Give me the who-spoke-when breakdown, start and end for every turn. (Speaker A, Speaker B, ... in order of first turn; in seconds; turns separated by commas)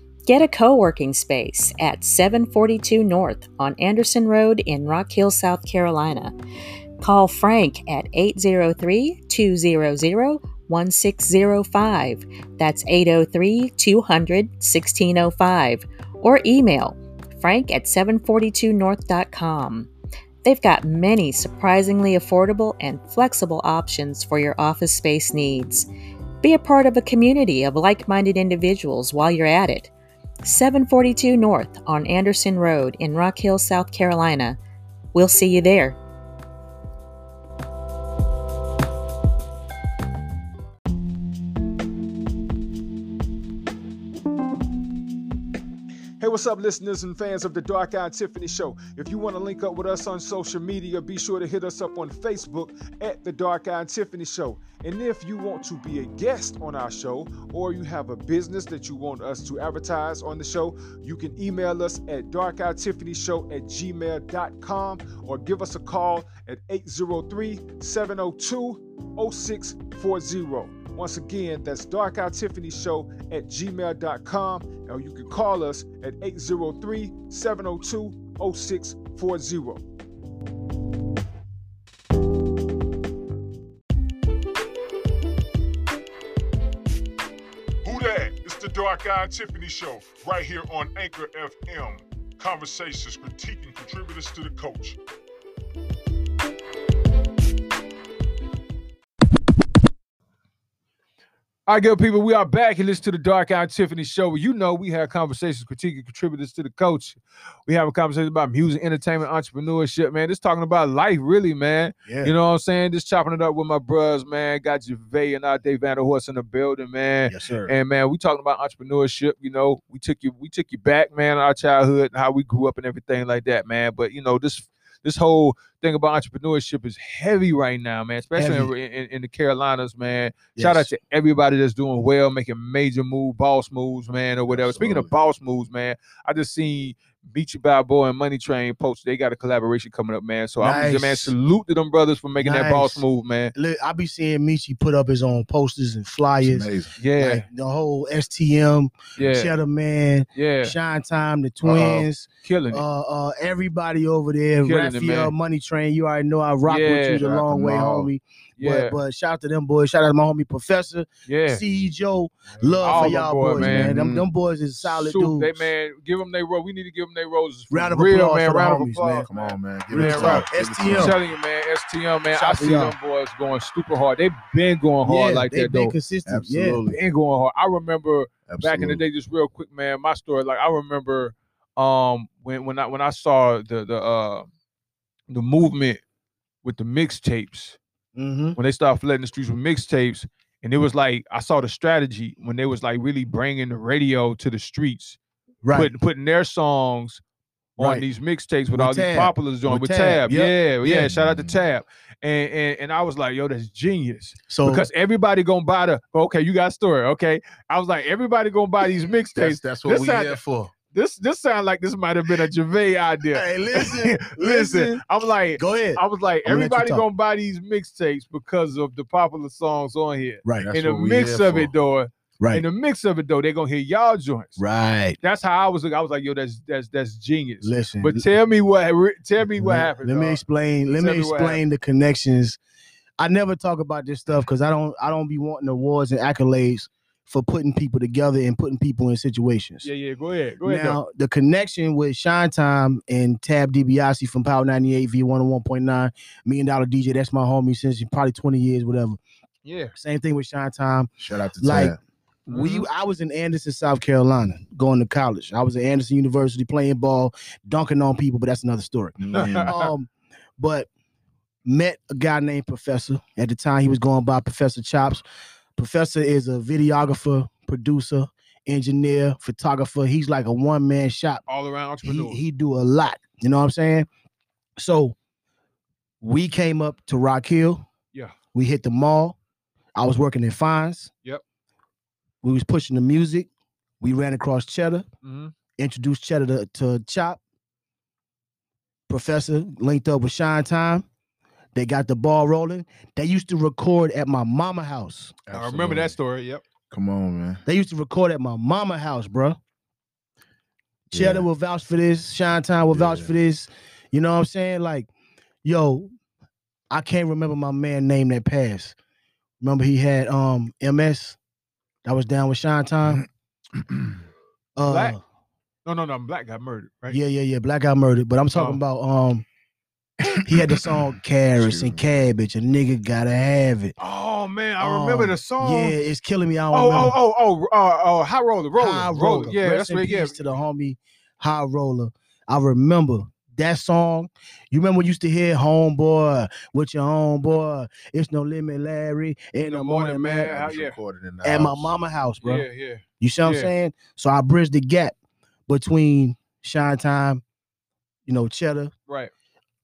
Speaker A: 0.3-6.3, Speaker A: 7.0-19.9, Speaker A: 20.4-25.9, Speaker A: 26.4-29.9, Speaker A: 30.4-34.6, Speaker A: 35.1-36.0, Speaker B: 46.2-79.8, Speaker C: 87.8-95.0, Speaker B: 101.7-143.5, Speaker D: 112.1-112.3, Speaker D: 117.3-117.8, Speaker D: 128.4-128.7, Speaker D: 130.6-130.9, Speaker E: 134.5-135.1, Speaker D: 140.6-141.3, Speaker D: 142.4-165.7, Speaker E: 146.4-146.9, Speaker B: 147.0-147.5, Speaker B: 149.2-149.5, Speaker B: 150.4-150.8, Speaker E: 151.6-152.1, Speaker B: 152.4-152.8, Speaker B: 154.6-155.3, Speaker B: 156.7-157.2, Speaker E: 157.2-158.1, Speaker B: 158.6-159.0, Speaker B: 161.3-161.6, Speaker E: 162.6-164.3, Speaker B: 162.8-163.9, Speaker B: 164.8-175.9, Speaker D: 167.7-169.3, Speaker E: 169.3-171.2, Speaker D: 169.9-171.2, Speaker D: 172.3-173.0, Speaker D: 175.1-176.8, Speaker E: 176.3-177.0, Speaker B: 176.9-184.5, Speaker E: 178.5-179.0, Speaker B: 185.3-186.0, Speaker B: 186.6-187.8, Speaker D: 188.2-188.6, Speaker B: 188.6-195.2, Speaker D: 195.6-195.9, Speaker B: 195.7-197.2, Speaker D: 197.8-198.1, Speaker B: 197.8-210.4, Speaker D: 198.8-201.1, Speaker E: 201.1-201.6, Speaker D: 204.5-204.8, Speaker E: 209.3-210.7, Speaker B: 210.9-224.6, Speaker D: 213.3-215.0, Speaker D: 215.6-217.1, Speaker D: 220.4-220.7, Speaker E: 220.6-221.7, Speaker D: 224.6-225.2, Speaker B: 225.2-230.4, Speaker D: 227.6-228.3, Speaker D: 229.6-232.6, Speaker B: 231.0-231.6, Speaker D: 233.2-239.9, Speaker B: 239.8-241.0, Speaker D: 240.6-249.2, Speaker B: 249.7-249.9, Speaker D: 249.9-251.1, Speaker E: 251.2-252.0, Speaker D: 251.6-252.0, Speaker D: 252.5-260.9, Speaker B: 252.5-252.9, Speaker E: 259.2-259.7, Speaker B: 259.3-259.9, Speaker D: 261.7-265.2, Speaker D: 265.8-271.4, Speaker B: 271.5-272.4, Speaker D: 272.0-274.1, Speaker D: 274.8-275.1, Speaker D: 276.2-277.8, Speaker D: 278.5-279.4, Speaker D: 280.0-281.1, Speaker D: 282.4-283.5, Speaker D: 284.0-285.1, Speaker B: 285.2-285.5, Speaker D: 285.8-287.4, Speaker D: 289.1-291.1, Speaker D: 291.8-295.4, Speaker E: 295.5-296.2, Speaker B: 295.5-296.6, Speaker E: 296.9-297.6, Speaker D: 297.7-299.6, Speaker E: 301.1-301.5, Speaker D: 301.1-305.1, Speaker E: 302.9-303.3, Speaker D: 305.6-306.1, Speaker D: 306.9-308.9, Speaker D: 309.6-311.4, Speaker D: 312.1-313.2, Speaker E: 313.8-314.2, Speaker D: 314.8-315.2, Speaker B: 314.9-315.2, Speaker B: 315.9-317.2, Speaker D: 317.1-319.4, Speaker B: 318.5-318.8, Speaker D: 320.4-323.9, Speaker E: 320.5-321.1, Speaker E: 321.6-322.0, Speaker B: 324.0-326.0, Speaker D: 324.8-327.2, Speaker B: 326.7-330.4, Speaker D: 328.8-340.6, Speaker B: 339.6-341.0, Speaker E: 340.4-341.9, Speaker D: 341.4-342.7, Speaker B: 342.4-343.7, Speaker D: 343.2-345.1, Speaker D: 345.7-347.4, Speaker D: 348.3-348.9